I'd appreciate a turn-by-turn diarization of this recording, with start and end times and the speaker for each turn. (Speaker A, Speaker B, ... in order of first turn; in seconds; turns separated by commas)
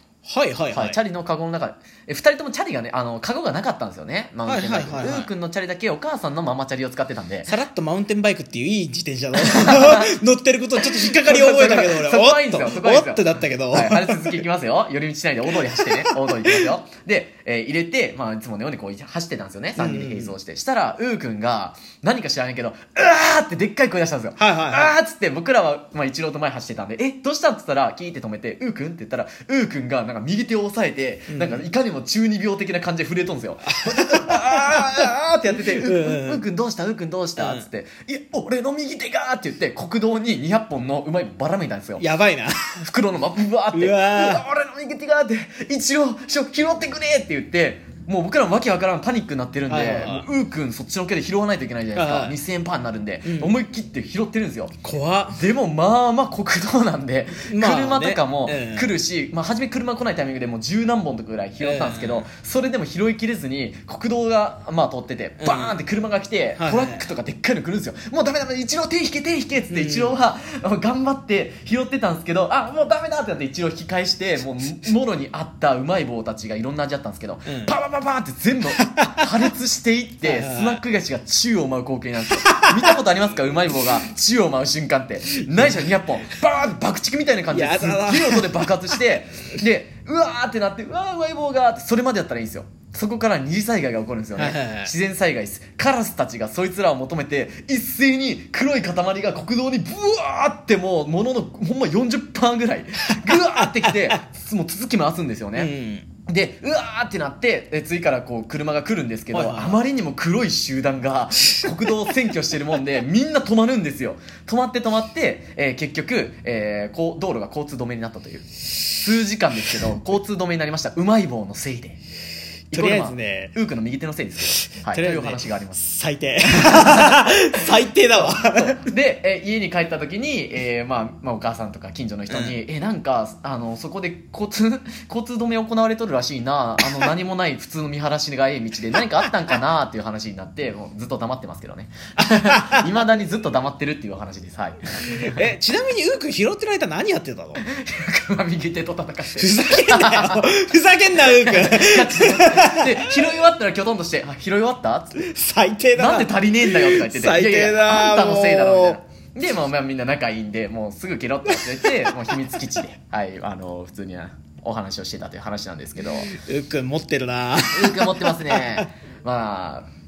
Speaker A: 0.2-1.0, Speaker B: 0.7-7.5, Speaker A: 4.5-5.3, Speaker A: 7.5-14.4, Speaker B: 9.3-10.2, Speaker B: 10.8-42.0, Speaker A: 15.8-16.6, Speaker A: 19.8-20.4, Speaker A: 24.4-24.9, Speaker A: 31.3-31.6, Speaker A: 33.7-35.1, Speaker A: 35.8-36.4, Speaker A: 37.4-37.7, Speaker A: 42.0-42.9, Speaker B: 42.8-54.8, Speaker A: 43.7-44.4, Speaker A: 49.7-50.3, Speaker A: 51.9-52.4, Speaker A: 53.2-53.5, Speaker A: 54.8-55.4, Speaker B: 55.4-105.7, Speaker A: 57.5-58.9, Speaker A: 61.6-62.3, Speaker A: 65.4-65.8, Speaker A: 66.6-67.0, Speaker A: 69.7-70.2, Speaker A: 77.5-77.7, Speaker A: 79.0-79.2, Speaker A: 80.2-80.8, Speaker A: 87.5-88.7, Speaker A: 94.4-94.9, Speaker A: 103.6-104.2, Speaker A: 105.6-106.1, Speaker B: 106.3-122.0, Speaker A: 109.3-109.8, Speaker B: 122.7-125.8, Speaker A: 122.7-123.5, Speaker A: 124.6-128.8, Speaker B: 126.5-127.3, Speaker B: 128.4-145.5, Speaker A: 132.3-132.6, Speaker A: 142.4-142.8, Speaker A: 145.1-147.6, Speaker B: 147.6-150.5, Speaker A: 149.3-153.2, Speaker B: 151.2-155.2, Speaker A: 155.2-159.0, Speaker B: 156.0-166.3, Speaker A: 161.5-162.2, Speaker A: 166.3-168.9, Speaker B: 167.7-169.9